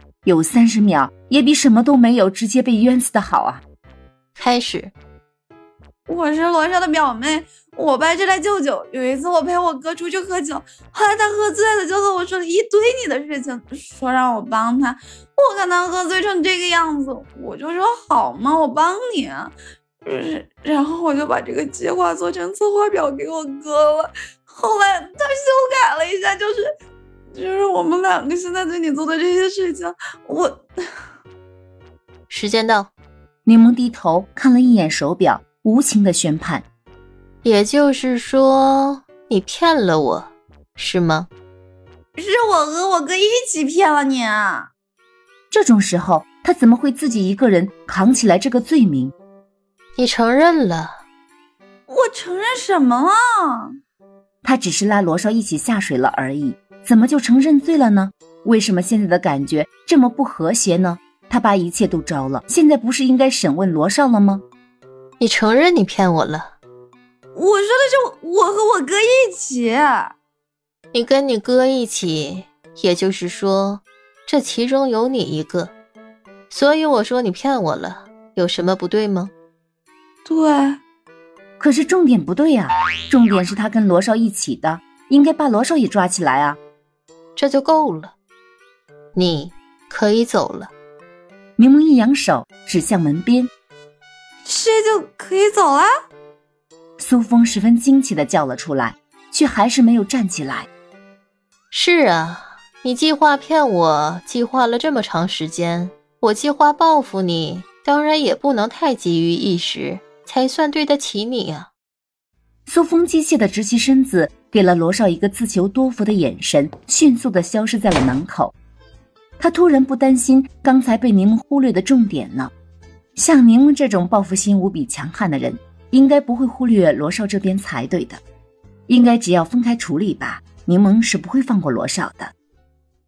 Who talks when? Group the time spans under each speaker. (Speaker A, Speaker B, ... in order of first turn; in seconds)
Speaker A: 0.2-3.6, 33.5-36.7, 45.5-49.1, 54.4-64.5, 81.6-86.6, 91.6-93.5, 97.0-100.7, 112.7-118.5, 119.4-122.5, 123.2-128.2, 128.9-132.3
Speaker B: 4.4-4.9, 32.3-32.9, 37.4-41.3, 50.0-51.0, 65.2-66.5, 70.9-75.7, 76.5-79.3, 87.4-88.1, 89.2-90.7, 101.7-111.7
Speaker C: 6.1-19.5, 20.1-26.7, 27.3-30.7, 42.2-44.7, 51.9-53.8, 67.3-70.1, 80.3-80.8, 94.5-95.9